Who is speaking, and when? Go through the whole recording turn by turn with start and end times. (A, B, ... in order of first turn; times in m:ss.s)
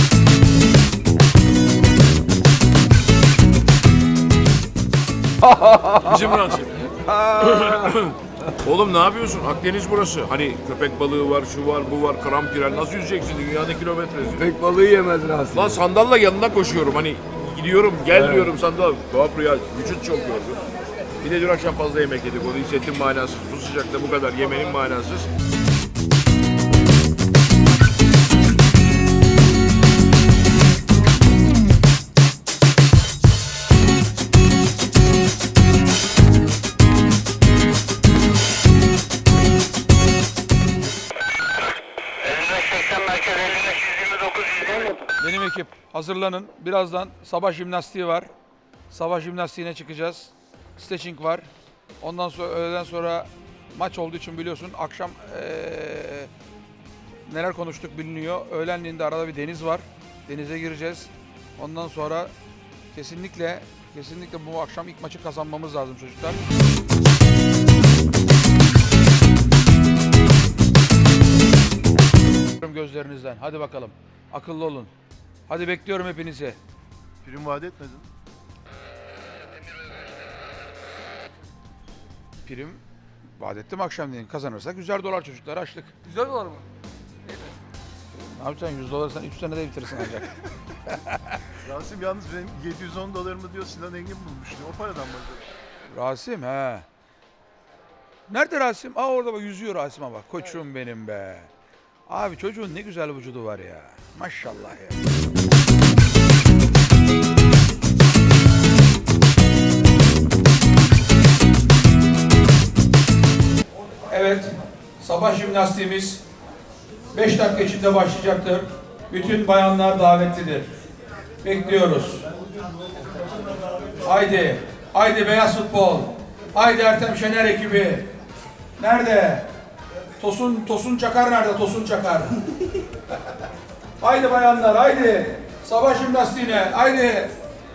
0:05.4-0:08.0 A
0:06.1-0:06.7 B
0:07.4-0:14.4 B
0:14.2-0:15.8 A
0:15.5-0:20.6 B
0:18.1-0:18.5 A
0:21.2-0:25.3 B
0:45.2-0:48.3 C
0:48.9-0:51.5 C
0:52.0-0:56.3 C
0:57.3-1:02.3 C
1:02.9-1:06.4 C
1:12.6-1:14.9 C
1:15.5-1:16.6 C
1:17.2-1:18.1 D
1:22.4-1:22.8 C
1:23.4-1:26.6 C
1:28.2-1:30.3 C
1:31.6-1:35.5 D
1:35.9-1:36.9 C
1:38.3-1:41.5 C
1:42.1-1:45.0 C
1:54.1-1:56.2 C
1:57.1-2:00.7 C
2:01.4-2:02.2 C
2:04.0-2:08.1 C
2:08.8-2:09.5 C
2:10.2-2:12.4 C
2:14.0-2:17.4 C